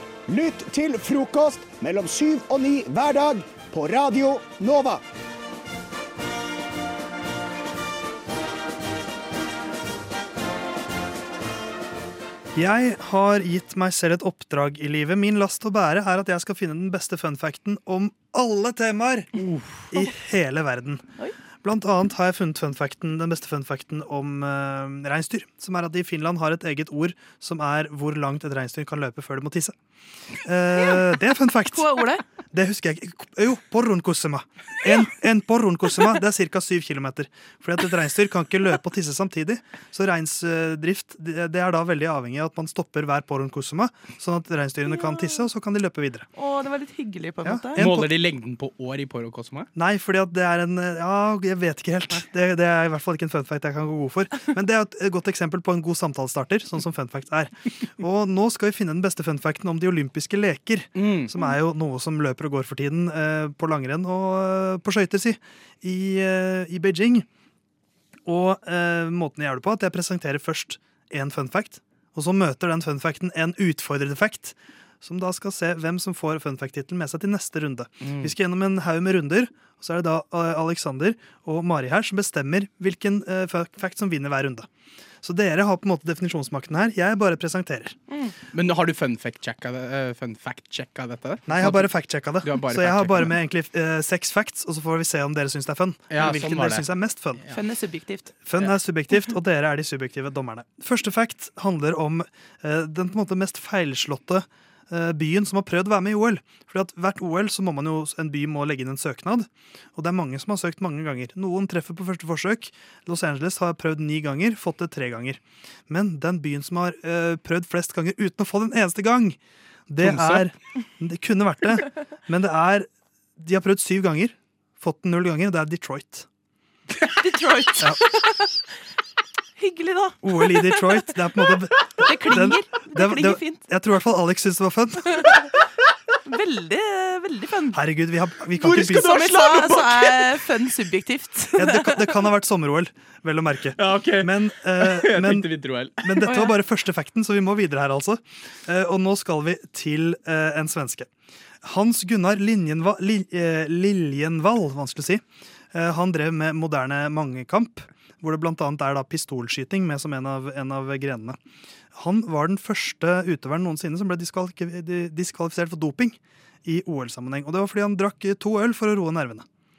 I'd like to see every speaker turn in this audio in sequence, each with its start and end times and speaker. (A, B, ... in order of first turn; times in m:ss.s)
0:00.3-0:05.0 A
0:12.6-0:19.3 B
0:19.9-0:21.1 B
0:21.6-0:29.8 B
0:30.4-0:31.9 B
0:31.7-0:32.2 C
0:32.5-0:46.3 B
0:45.0-0:45.3 C
0:46.4-0:47.9 C
0:47.4-0:48.1 B
0:47.8-0:49.7 D
0:49.8-1:07.3 B
1:01.0-1:01.3 D
1:08.3-1:24.7 B
1:18.0-1:18.3 D
1:25.2-1:28.0 B
1:28.1-1:28.4 C
1:28.5-1:31.9 D
1:31.5-1:37.4 B
1:32.4-1:33.3 D
1:36.1-1:36.9 D
1:37.5-1:38.4 C
1:38.5-2:06.3 B
2:00.0-2:00.5 D
2:07.0-2:08.5 C
2:09.6-2:11.0 C
2:10.2-2:15.2 B
2:12.0-2:13.6 C
2:16.3-2:17.8 C
2:17.7-2:20.2 B
2:18.6-2:22.1 C
2:21.6-2:25.5 B
2:23.8-2:26.5 D
2:26.0-2:31.1 B
2:31.6-2:41.4 B
2:41.9-2:49.5 B